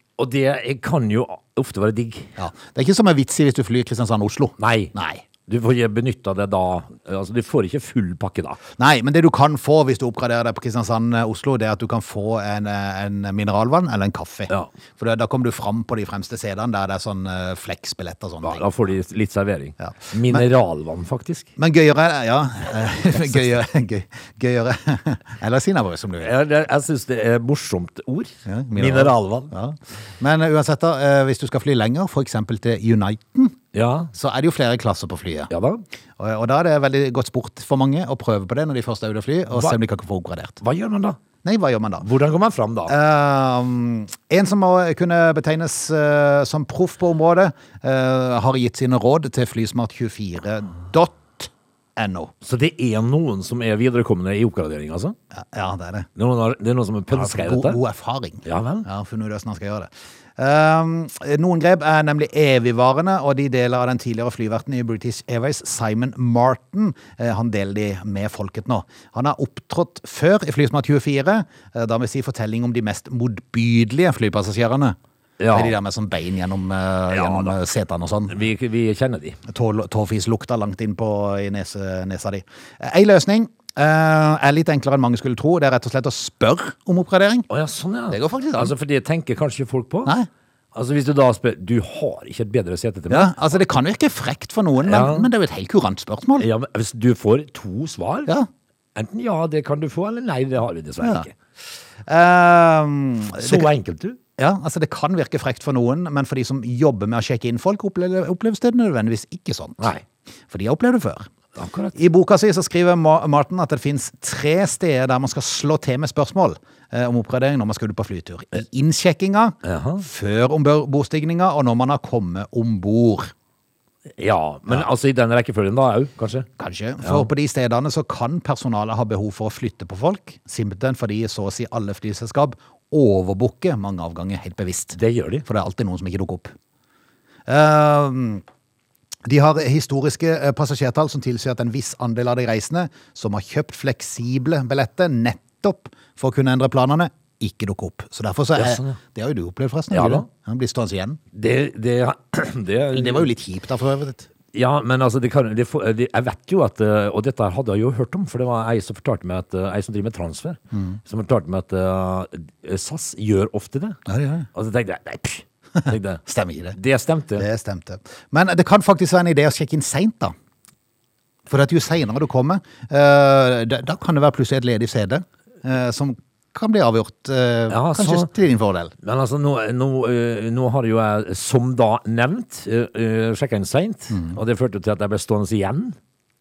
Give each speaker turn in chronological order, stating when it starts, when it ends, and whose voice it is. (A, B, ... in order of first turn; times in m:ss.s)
0:00.2-0:02.3 A
0:02.4-0:05.2 B
0:04.6-0:04.9 A
0:05.5-0:08.6 A
0:08.8-0:18.7 B
0:18.4-0:21.5 A
0:19.8-0:20.4 B
0:21.6-0:26.3 B
0:26.2-0:29.5 A
0:28.5-0:33.6 B
0:33.7-0:34.1 A
0:34.1-0:35.5 B
0:35.5-0:35.8 A
0:36.2-0:40.6 B
0:39.5-0:39.8 A
0:40.6-0:41.2 A
0:41.4-0:42.1 B
0:42.0-0:42.9 A
0:42.9-0:52.3 B
0:52.4-0:55.2 A
0:55.3-0:56.1 B
0:56.2-0:57.8 A
0:57.1-1:15.0 B
0:58.4-0:58.9 A
1:15.4-1:15.8 A
1:15.5-1:18.4 B
1:17.1-1:17.6 A
1:18.3-1:19.4 A
1:19.5-1:27.5 B
1:27.5-1:30.1 A
1:28.1-1:28.7 B
1:30.7-1:33.3 A
1:33.1-1:36.5 B
1:34.8-1:35.3 A
1:36.4-1:38.3 A
1:39.0-1:41.3 A
1:41.0-1:41.3 B
1:42.1-1:43.7 B
1:43.4-1:44.2 A
1:44.4-1:49.9 B
1:49.8-1:50.0 A
1:50.5-1:51.3 B
1:51.6-1:52.0 A
1:52.0-2:03.3 B
1:59.6-2:00.0 A
2:04.2-2:06.5 A
2:06.6-2:16.5 B
2:07.0-2:07.3 A
2:15.0-2:15.4 A
2:17.5-2:18.4 B
2:19.3-2:31.2 B
2:28.6-2:29.0 A
2:29.9-2:30.3 A
2:31.3-2:33.3 A
2:32.9-2:34.3 B
2:34.5-2:44.0 A
2:40.7-2:41.0 B
2:44.1-2:44.5 B
2:44.5-2:46.2 A
2:45.8-2:46.8 B
2:46.8-2:47.5 A
2:47.4-2:50.3 B
2:51.5-2:58.9 B
2:57.7-2:58.3 A
2:59.0-3:06.0 A
3:04.1-3:04.4 B